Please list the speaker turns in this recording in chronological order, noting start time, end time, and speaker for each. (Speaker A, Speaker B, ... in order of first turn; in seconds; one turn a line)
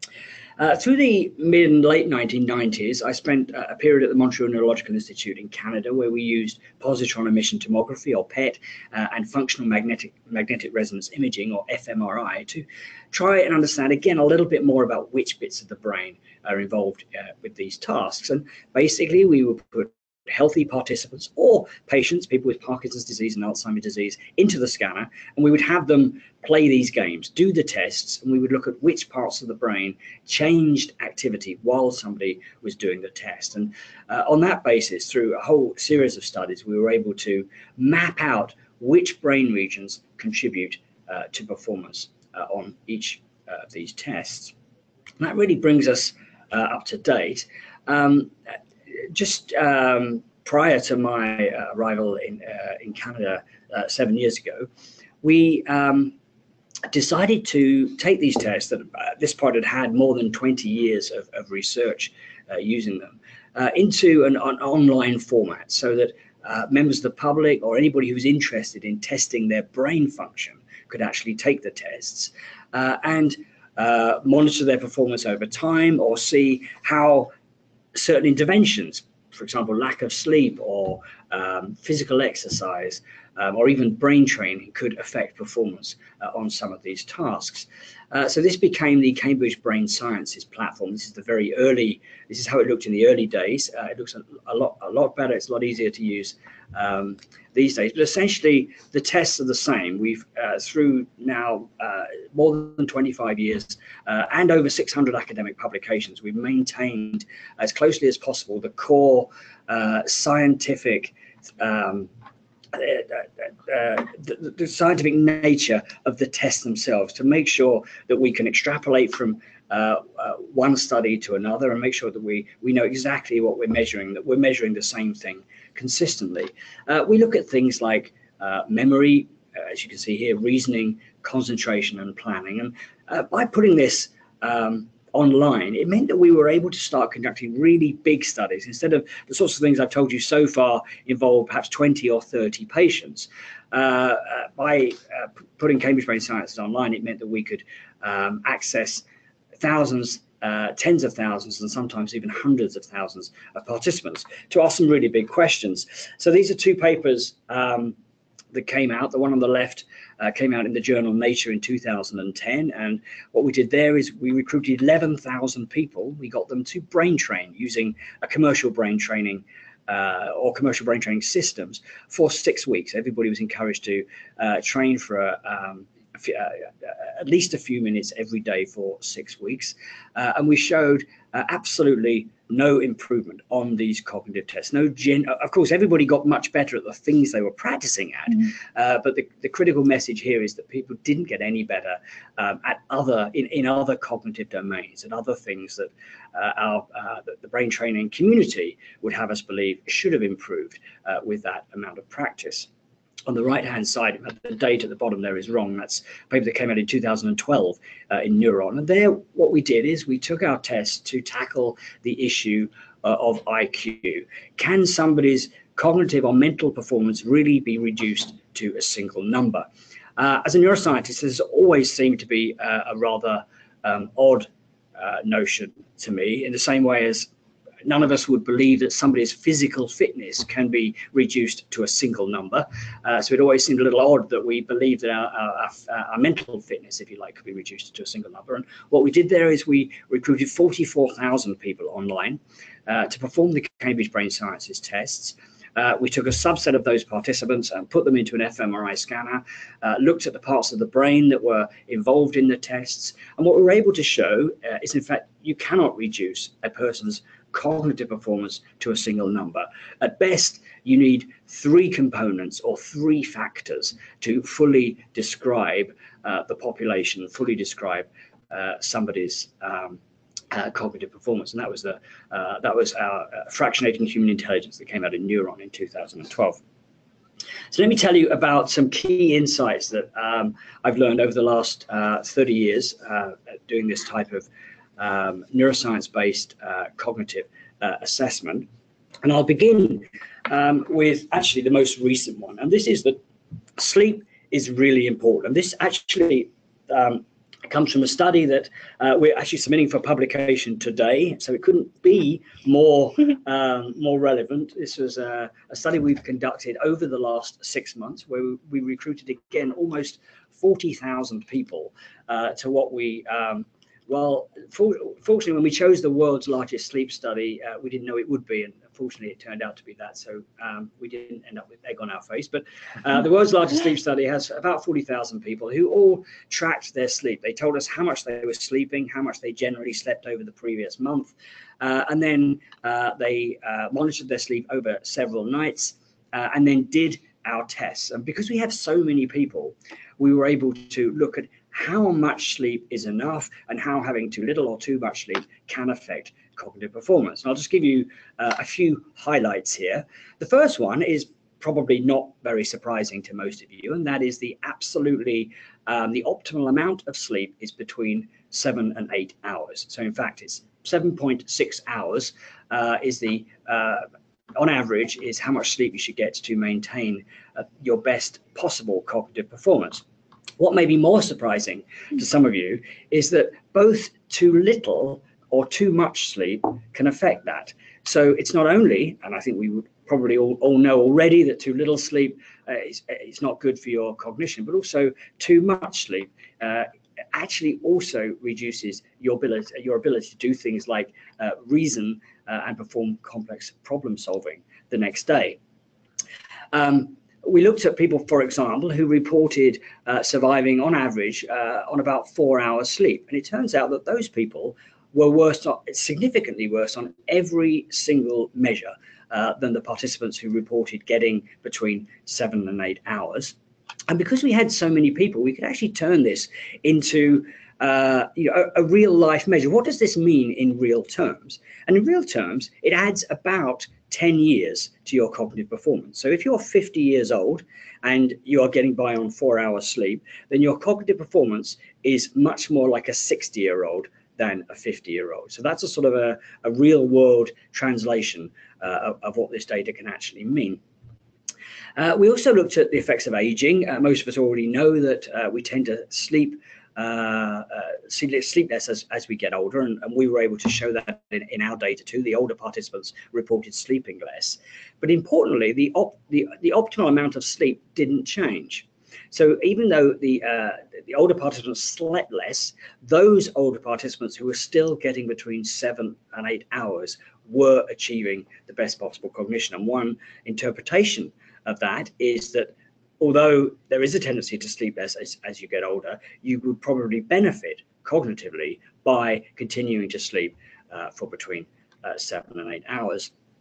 Speaker A: 0.6-44.5
Speaker A: 45.2-48.4
Speaker A: 48.9-54.7
Speaker A: 55.2-56.2
Speaker A: 56.9-77.3
Speaker A: 77.9-112.1
Speaker A: 112.7-149.0
Speaker A: 149.6-158.0
Speaker A: 158.5-202.7
Speaker A: 203.3-219.7
Speaker A: 220.2-227.3
Speaker A: 227.8-270.0
Speaker A: 270.5-276.6
Speaker A: 277.7-288.7
Speaker A: 289.2-293.2
Speaker A: 293.8-364.0
Speaker A: 364.6-370.0
Speaker A: 370.6-395.6
Speaker A: 396.7-413.6
Speaker A: 414.1-440.8
Speaker A: 442.0-483.3